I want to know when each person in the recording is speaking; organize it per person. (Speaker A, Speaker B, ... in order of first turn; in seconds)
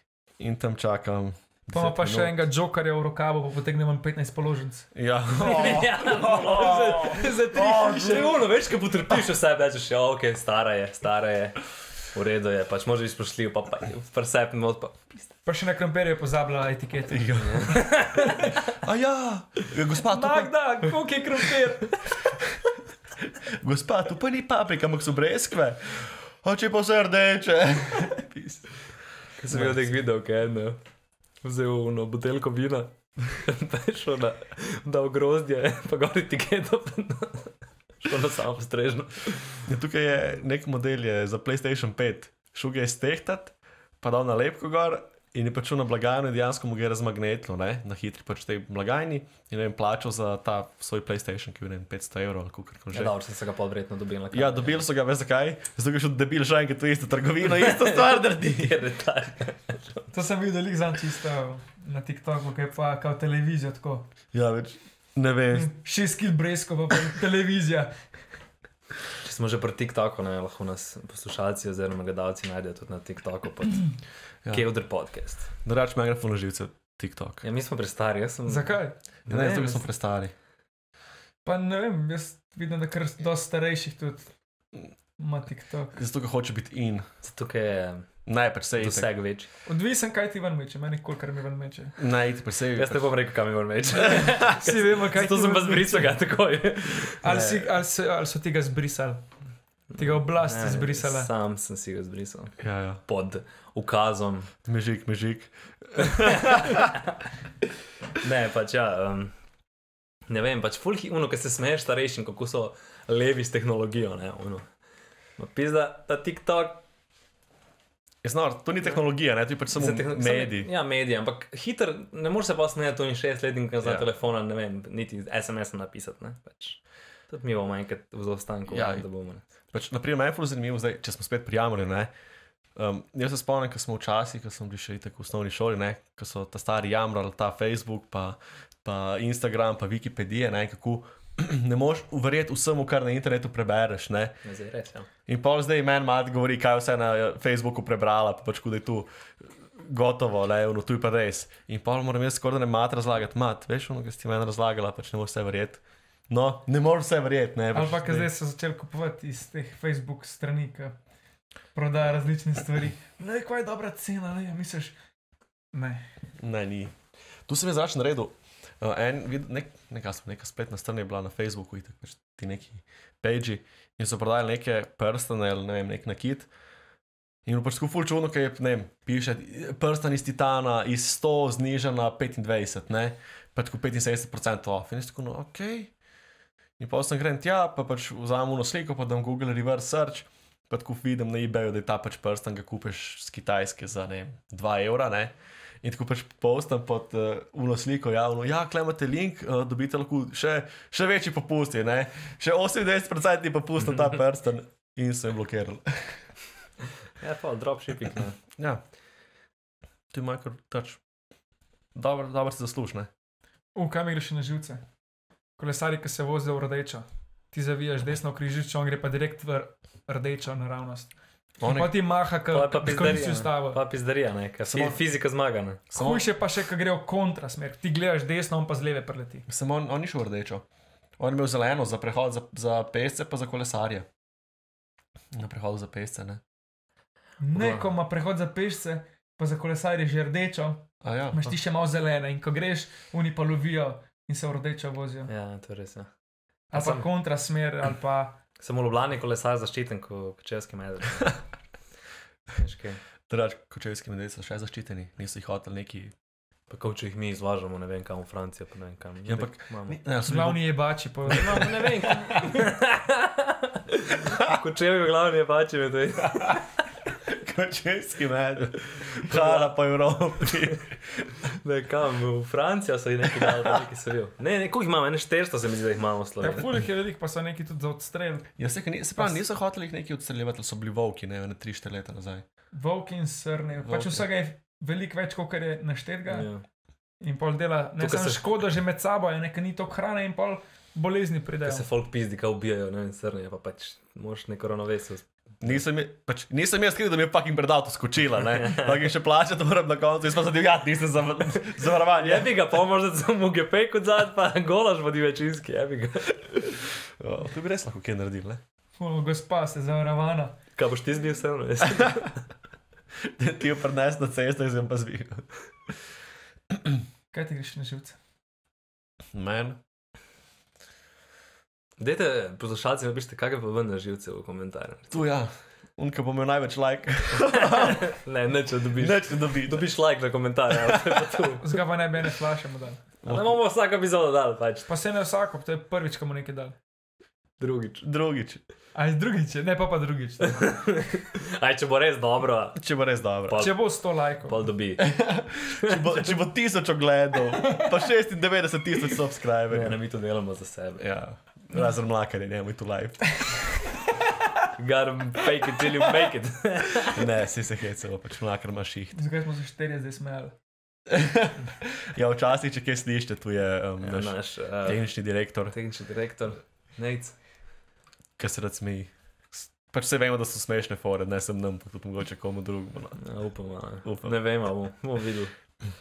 Speaker A: 0.4-2.4, 4.9-8.4, 17.1-18.1, 18.7-20.9, 23.2-28.7, 29.5-29.9, 39.6-53.1, 54.3-58.8, 64.3-65.7, 75.6-77.4, 79.3-80.3, 85.9-87.0, 88.2-89.1, 92.0-93.1, 102.6-103.0, 104.7-106.9, 118.2-120.7, 128.7-129.1, 129.7-132.1, 132.8-144.4, 145.3-158.3, 166.4-166.9, 167.5-176.5, 177.5-185.9, 186.8-206.3, 210.1-211.0, 211.9-213.1, 221.6-221.9, 224.6-225.0, 225.9-226.3, 229.5-230.6, 231.2-234.1, 235.3-236.4, 241.0-241.5, 253.3-256.1, 259.2-260.6, 261.3-262.6, 264.2-264.6, 267.2-271.4, 273.3-273.7, 278.6-282.4, 283.8-284.2, 295.6-302.5, 307.2-308.6, 313.2-316.0, 316.7-317.0, 319.3-319.8, 325.1-328.0, 329.0-329.9, 330.8-331.2, 333.2-333.6, 338.0-338.6, 342.8-343.7, 345.0-350.0, 351.0-353.6, 357.1-359.2, 361.1-365.8, 368.4-373.2, 374.0-374.4
Speaker B: 1.7-4.9, 7.1-8.3, 15.4-17.5, 18.2-18.6, 20.0-22.0, 60.1-64.1, 65.5-68.0, 78.5-79.6, 81.4-84.3, 85.2-86.0, 89.6-92.0, 94.0-96.2, 97.2-99.3, 99.9-101.3, 157.7-160.9, 161.7-164.9, 165.7-166.1, 213.8-214.8, 215.6-223.8, 225.9-229.5, 237.4-245.3, 246.7-248.4, 260.3-261.7, 276.4-278.5, 282.7-286.5, 287.2-291.9, 309.0-310.6, 317.3-318.2, 331.6-333.0, 334.9-336.8, 338.9-340.7, 343.6-344.6, 359.1-360.5
Speaker C: 5.4-15.3, 17.5-18.3, 29.4-30.8, 31.4-39.7, 52.9-54.9, 57.5-60.1, 69.2-75.5, 77.4-79.8, 87.2-89.5, 92.8-97.7, 99.9-104.5, 106.0-106.8, 108.2-109.3, 110.3-114.7, 115.4-116.8, 119.7-129.4, 144.4-145.1, 207.2-208.4, 222.5-225.8, 237.5-237.9, 245.3-246.1, 246.7-247.1, 248.6-251.4, 252.5-253.0, 256.7-260.0, 261.3-266.7, 269.2-269.7, 271.6-276.7, 286.3-286.6, 288.0-288.4, 291.6-295.8, 298.6-299.1, 302.1-306.8, 310.8-312.4, 322.0-325.2, 327.4-331.6, 333.2-334.9, 337.6-338.0, 340.5-342.9, 343.5-345.1, 345.7-346.2, 349.7-351.1, 354.8-357.3, 364.0-365.1, 365.7-367.4, 373.2-375.5